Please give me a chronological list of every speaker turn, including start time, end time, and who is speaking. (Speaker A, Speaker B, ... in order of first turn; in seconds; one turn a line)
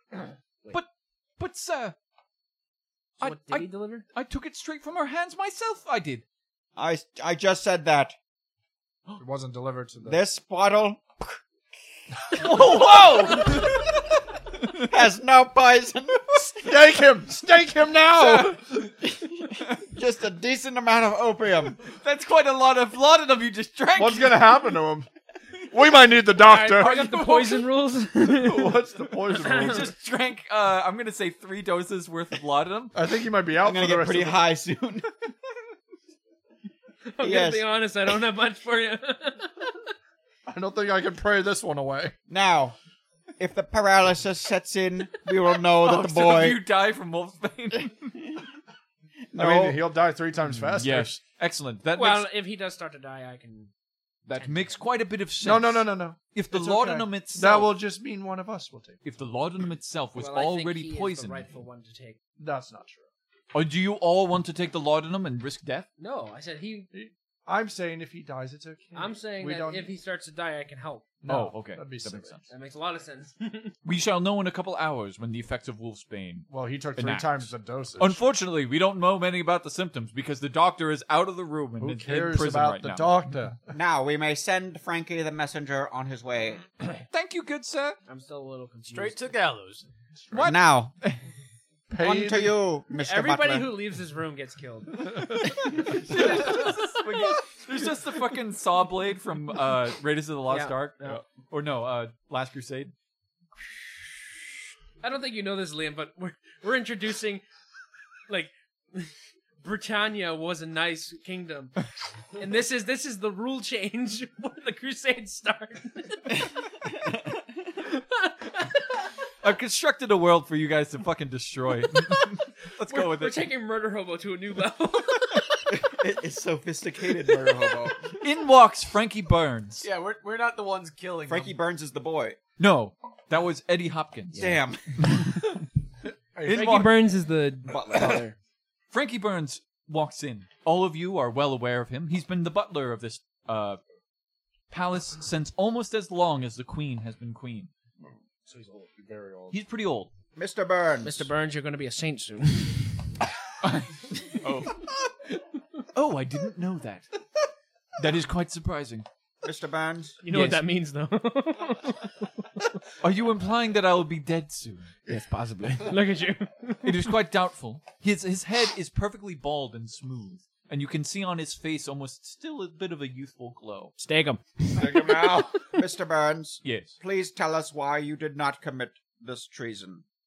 Speaker A: 0.7-1.9
Speaker A: 3.2-6.2
Speaker B: 3.2-4.0
Speaker C: 6.8-8.2
Speaker D: 9.2-10.2
Speaker C: 10.0-11.4
Speaker A: 12.3-13.9
Speaker A: 14.6-14.9
Speaker C: 14.9-16.8
Speaker D: 16.6-18.9
Speaker A: 18.1-18.9
Speaker C: 19.0-21.8
Speaker A: 21.8-24.5
Speaker D: 24.0-25.1
Speaker D: 25.7-27.0
Speaker B: 26.4-29.9
Speaker A: 26.7-27.7
Speaker D: 28.2-29.9
Speaker A: 29.4-32.9
Speaker D: 32.9-34.4
Speaker C: 33.6-35.1
Speaker B: 37.1-39.9
Speaker C: 37.2-37.6
Speaker D: 40.5-42.1
Speaker C: 42.3-42.8
Speaker C: 43.4-46.6
Speaker A: 45.8-48.1
Speaker C: 49.3-49.8
Speaker D: 49.4-51.1
Speaker A: 50.6-52.3
Speaker B: 51.9-53.7
Speaker A: 54.3-57.8
Speaker B: 54.4-54.8
Speaker D: 55.4-59.0
Speaker A: 59.0-61.5
Speaker B: 60.2-62.2
Speaker D: 62.4-63.1
Speaker A: 63.5-65.9
Speaker B: 66.0-66.9
Speaker D: 66.9-69.9
Speaker B: 68.9-71.2
Speaker D: 71.2-72.3
Speaker A: 71.3-72.5
Speaker B: 72.5-73.8
Speaker A: 73.8-83.2
Speaker D: 76.5-78.2
Speaker D: 81.8-83.6
Speaker C: 83.7-86.8
Speaker A: 87.1-88.0
Speaker B: 88.1-89.3
Speaker E: 88.9-89.9
Speaker D: 90.2-90.5
Speaker A: 90.3-91.2
Speaker C: 90.4-90.9
Speaker D: 91.9-92.6
Speaker C: 92.0-93.8
Speaker B: 92.9-96.9
Speaker A: 95.3-102.9
Speaker B: 100.5-101.3
Speaker B: 105.0-107.5
Speaker B: 108.3-111.8
Speaker B: 112.4-116.5
Speaker B: 117.9-118.7
Speaker A: 119.4-123.5
Speaker B: 122.9-125.7
Speaker C: 125.7-128.1
Speaker A: 128.2-129.9
Speaker E: 129.8-131.6
Speaker C: 131.3-132.4
Speaker A: 132.6-135.6
Speaker B: 134.3-134.6
Speaker C: 134.3-135.0
Speaker D: 136.3-136.9
Speaker A: 136.4-137.1
Speaker B: 136.5-138.3
Speaker C: 137.9-138.2
Speaker A: 138.9-143.8
Speaker A: 144.7-147.7
Speaker B: 148.5-148.9
Speaker D: 149.0-149.6
Speaker A: 149.5-150.1
Speaker C: 150.4-151.3
Speaker B: 151.0-153.2
Speaker A: 153.6-154.8
Speaker A: 155.9-157.1
Speaker A: 158.0-159.1
Speaker C: 159.4-160.2
Speaker B: 160.2-162.6
Speaker A: 160.3-160.6
Speaker A: 163.0-164.9
Speaker B: 165.1-167.1
Speaker A: 166.8-173.9
Speaker B: 174.0-175.2
Speaker D: 174.7-175.6
Speaker C: 174.8-180.0
Speaker A: 176.6-177.0